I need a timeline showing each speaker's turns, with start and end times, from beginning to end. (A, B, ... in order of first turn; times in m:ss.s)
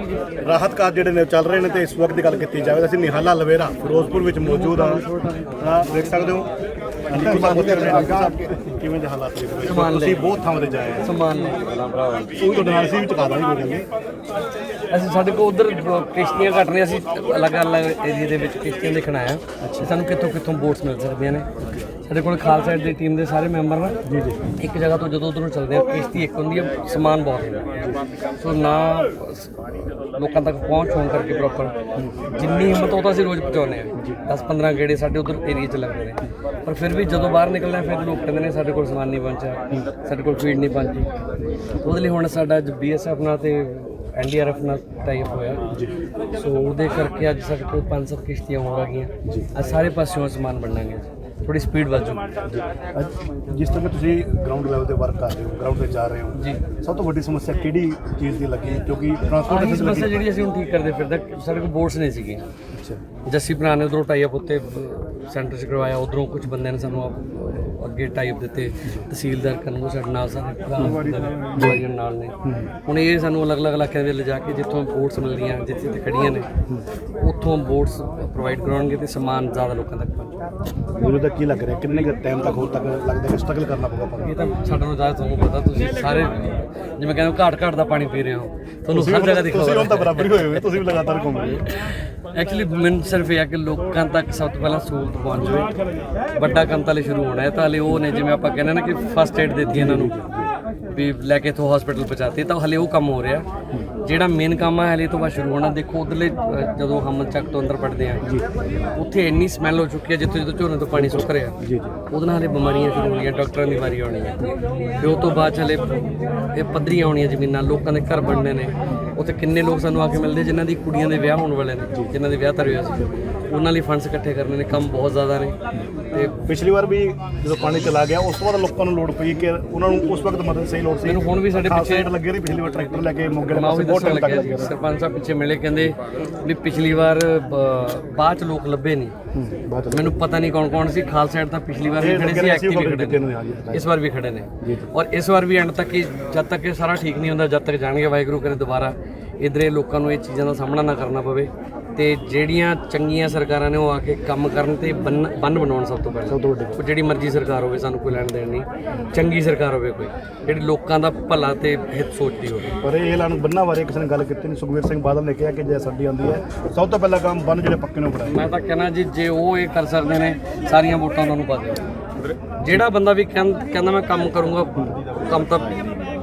0:00.4-0:05.0 A
0:04.4-0:06.2 B
0:05.6-0:06.5 A
0:07.1-0:11.1 A
0:07.2-0:08.3 B
0:09.6-0:10.4 B
0:11.0-0:12.4 B
0:12.4-0:13.9 A
0:14.9-0:21.5 B
0:19.6-0:19.9 A
0:22.0-0:24.0 B
0:24.0-0:24.5 A
0:24.6-0:27.7 B
0:28.4-0:41.1 B
0:32.0-0:32.2 A
0:34.0-0:34.2 A
0:41.8-0:45.6 B
0:46.3-0:52.2 B
0:49.2-0:49.5 A
0:52.5-1:00.2 A
0:56.4-0:56.6 B
0:59.5-1:02.5 B
1:02.7-1:03.0 A
1:03.3-1:16.5 B
1:10.8-1:11.8 A
1:12.4-1:12.7 A
1:17.2-1:20.4 B
1:20.9-1:24.3 A
1:24.2-1:30.6 B
1:28.9-1:31.6 A
1:31.7-1:35.7 B
1:36.3-1:40.1 B
1:39.7-1:40.5 A
1:40.9-1:43.5 B
1:44.0-1:48.3 B
1:49.0-1:55.9 B
1:50.9-1:52.0 A
1:56.5-2:05.6 B
2:06.1-2:06.4 B
2:06.4-2:14.7 A
2:11.0-2:12.1 B
2:13.5-2:19.1 B
2:19.3-2:20.2 A
2:19.9-2:42.7 B
2:22.0-2:23.9 A
2:24.6-2:24.9 A
2:36.2-2:36.8 A
2:42.8-2:48.5 A
2:48.3-2:51.8 B
2:52.6-2:56.0 B